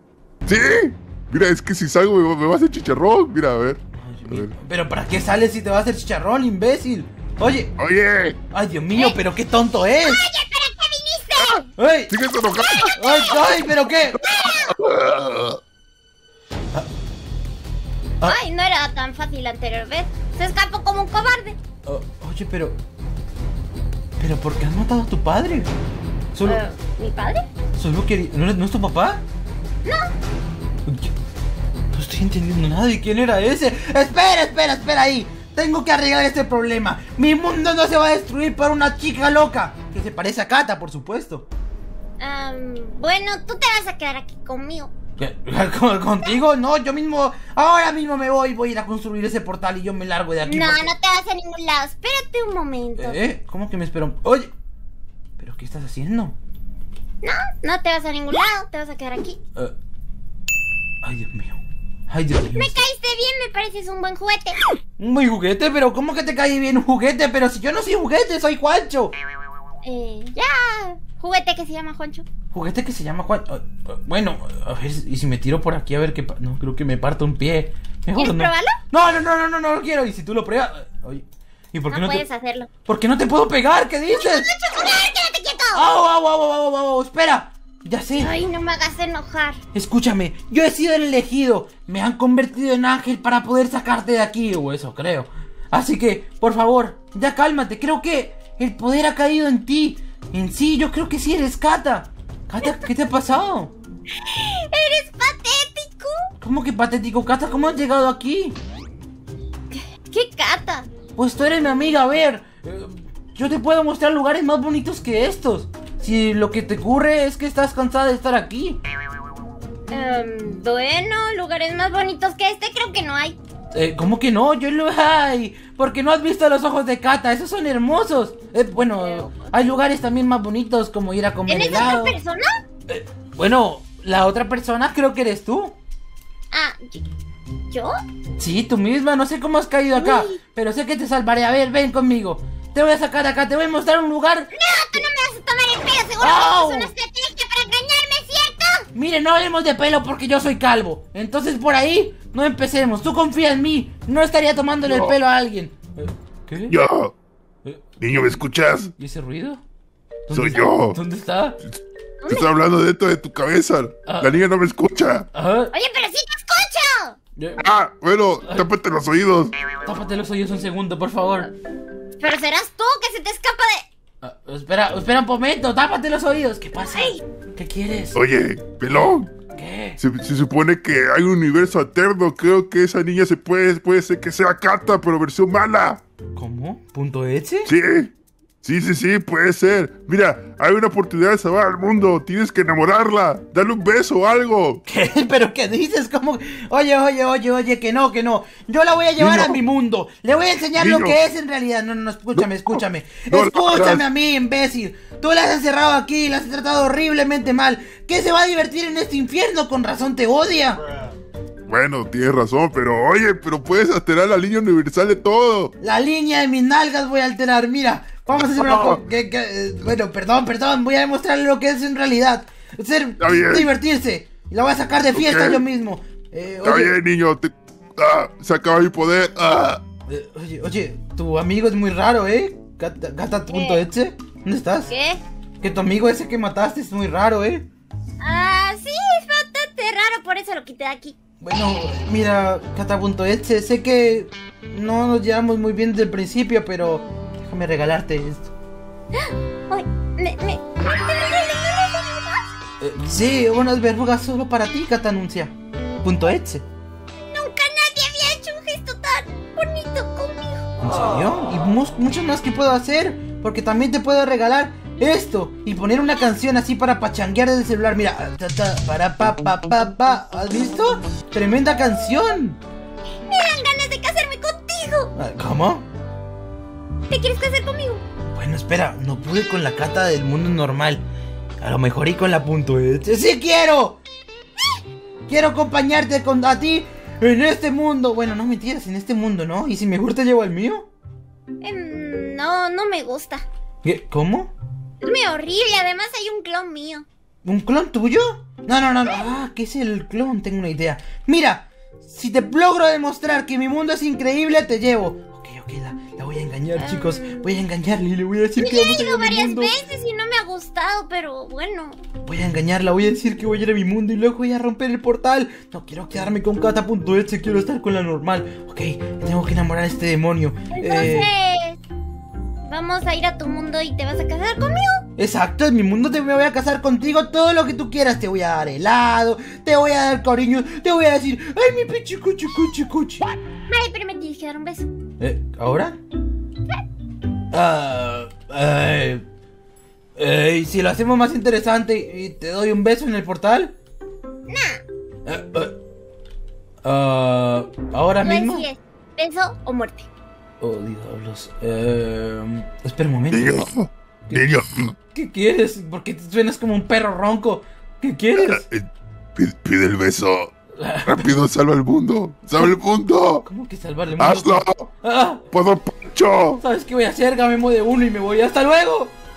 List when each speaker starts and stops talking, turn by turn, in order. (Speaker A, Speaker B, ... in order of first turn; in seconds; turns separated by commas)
Speaker A: 0.5-4.5, Speaker B: 4.0-7.7, Speaker A: 7.8-8.4, Speaker B: 8.5-10.3, Speaker C: 10.0-11.7, Speaker B: 11.8-12.1, Speaker A: 12.1-12.9, Speaker C: 12.7-14.8, Speaker B: 12.9-14.2, Speaker A: 14.3-15.6, Speaker C: 18.2-21.6, Speaker B: 21.9-22.8, Speaker B: 24.2-25.7, Speaker B: 26.3-26.6, Speaker C: 26.4-27.5, Speaker B: 27.8-29.2, Speaker C: 29.9-30.1, Speaker B: 30.9-31.1, Speaker B: 31.9-41.5, Speaker C: 42.2-44.9, Speaker B: 45.2-50.9, Speaker C: 50.5-53.2, Speaker B: 53.0-54.5, Speaker B: 55.4-56.4, Speaker C: 57.2-59.4, Speaker B: 61.0-62.9, Speaker C: 62.5-64.6, Speaker B: 65.0-69.1, Speaker C: 69.8-72.3, Speaker B: 72.5-82.2, Speaker C: 78.2-78.8, Speaker C: 81.9-82.7, Speaker B: 82.9-84.5, Speaker C: 84.1-85.9, Speaker B: 85.7-88.3, Speaker C: 88.2-89.6, Speaker B: 89.7-103.7, Speaker C: 104.2-106.3, Speaker B: 106.4-108.6, Speaker C: 109.7-110.9, Speaker B: 111.2-118.8, Speaker C: 119.9-123.4, Speaker B: 123.7-132.2, Speaker C: 129.0-129.5, Speaker C: 131.5-132.5, Speaker B: 132.9-135.8, Speaker C: 136.5-137.0, Speaker B: 138.4-145.0, Speaker C: 140.0-140.4, Speaker C: 144.5-148.9, Speaker B: 146.2-146.9, Speaker B: 148.9-156.8, Speaker A: 154.9-155.2, Speaker A: 156.7-157.1, Speaker B: 157.6-158.4, Speaker A: 158.0-158.9, Speaker B: 159.0-159.6, Speaker B: 160.3-161.6, Speaker A: 160.3-161.0, Speaker C: 162.2-162.5, Speaker A: 162.3-165.3, Speaker B: 164.1-164.4, Speaker B: 165.3-165.7, Speaker C: 165.7-167.2, Speaker B: 167.4-167.7, Speaker A: 167.6-169.6, Speaker B: 168.4-168.7, Speaker B: 169.8-171.5, Speaker C: 172.2-173.9, Speaker B: 174.2-178.2, Speaker C: 176.9-177.2, Speaker A: 178.2-179.3, Speaker B: 179.5-180.0, Speaker A: 180.0-186.0, Speaker B: 186.3-187.7, Speaker A: 187.7-188.1, Speaker A: 188.6-194.8, Speaker B: 194.9-210.8, Speaker A: 199.2-199.6, Speaker A: 200.8-201.2, Speaker A: 202.3-204.1, Speaker A: 211.7-215.7, Speaker B: 215.8-226.9, Speaker A: 218.4-219.0, Speaker A: 223.2-223.7, Speaker A: 225.1-225.7, Speaker A: 226.6-229.8, Speaker B: 230.1-234.9, Speaker C: 233.5-233.8, Speaker C: 234.9-235.2, Speaker B: 235.6-237.7, Speaker C: 238.2-241.2, Speaker B: 241.4-248.5, Speaker C: 249.1-252.5, Speaker B: 252.8-256.7, Speaker C: 257.2-260.7, Speaker B: 260.8-272.6, Speaker C: 273.3-275.1, Speaker B: 275.1-275.9, Speaker C: 277.1-278.0, Speaker B: 278.3-281.1, Speaker B: 281.6-284.0, Speaker B: 285.3-290.9, Speaker C: 291.6-293.4, Speaker B: 293.8-294.5, Speaker C: 295.0-297.1, Speaker B: 297.4-309.8, Speaker C: 306.8-307.6, Speaker C: 308.6-312.0, Speaker B: 312.2-321.3, Speaker C: 320.7-321.8, Speaker C: 322.7-325.0, Speaker B: 325.2-333.3, Speaker C: 333.7-334.9, Speaker B: 335.2-336.0, Speaker B: 337.5-339.2, Speaker B: 340.2-343.7, Speaker C: 344.5-344.8, Speaker B: 345.3-345.8, Speaker B: 346.8-348.7, Speaker C: 348.2-350.1, Speaker B: 350.6-353.7, Speaker A: 353.3-354.9, Speaker B: 355.1-358.7, Speaker A: 358.4-360.5, Speaker B: 360.8-361.4, Speaker A: 361.1-363.5, Speaker B: 363.4-365.4, Speaker A: 364.2-364.9, Speaker A: 365.5-366.6, Speaker B: 366.6-369.1